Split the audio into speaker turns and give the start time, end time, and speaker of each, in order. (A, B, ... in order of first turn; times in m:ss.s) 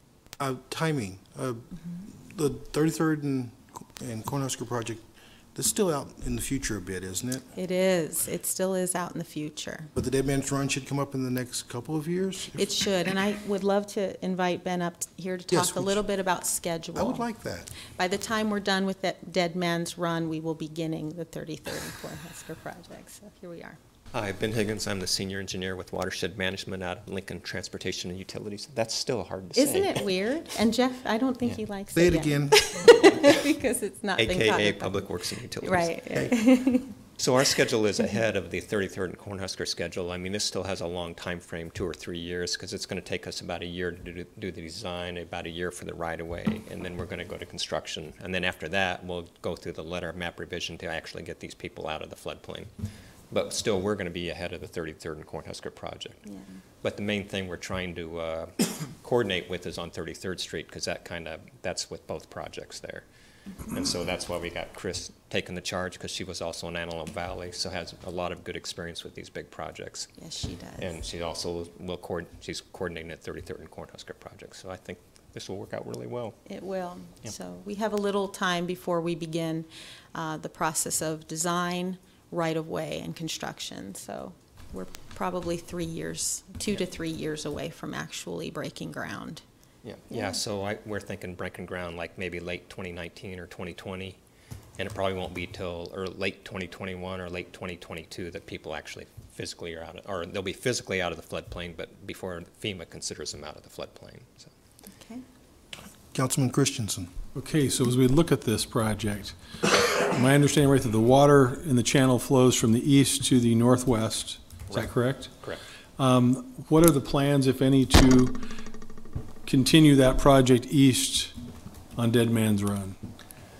0:00.4-0:07.4 A
0:07.5-0:09.9 B
0:10.0-0:12.7 A
0:12.6-0:17.2 B
0:15.5-0:16.0 A
0:17.0-0:17.7 A
0:17.9-0:23.8 B
0:24.1-0:30.1 C
0:29.6-0:37.0 B
0:31.9-0:33.2 A
0:34.2-0:36.0 C
0:37.2-0:52.7 C
0:53.3-0:56.2 C
0:56.2-0:56.6 B
0:56.8-1:03.1 C
1:03.7-1:10.1 C
1:10.2-1:11.0 B
1:10.8-1:16.4 C
1:16.5-1:29.4 B
1:29.8-1:34.2 C
1:30.1-1:30.4 B
1:34.8-1:44.5 C
1:45.0-1:45.2 B
1:46.1-1:47.1 A
1:47.4-1:55.4 D
1:54.7-1:55.6 C
1:56.0-1:58.4 D
1:59.5-2:01.4 D
2:02.0-2:03.0 D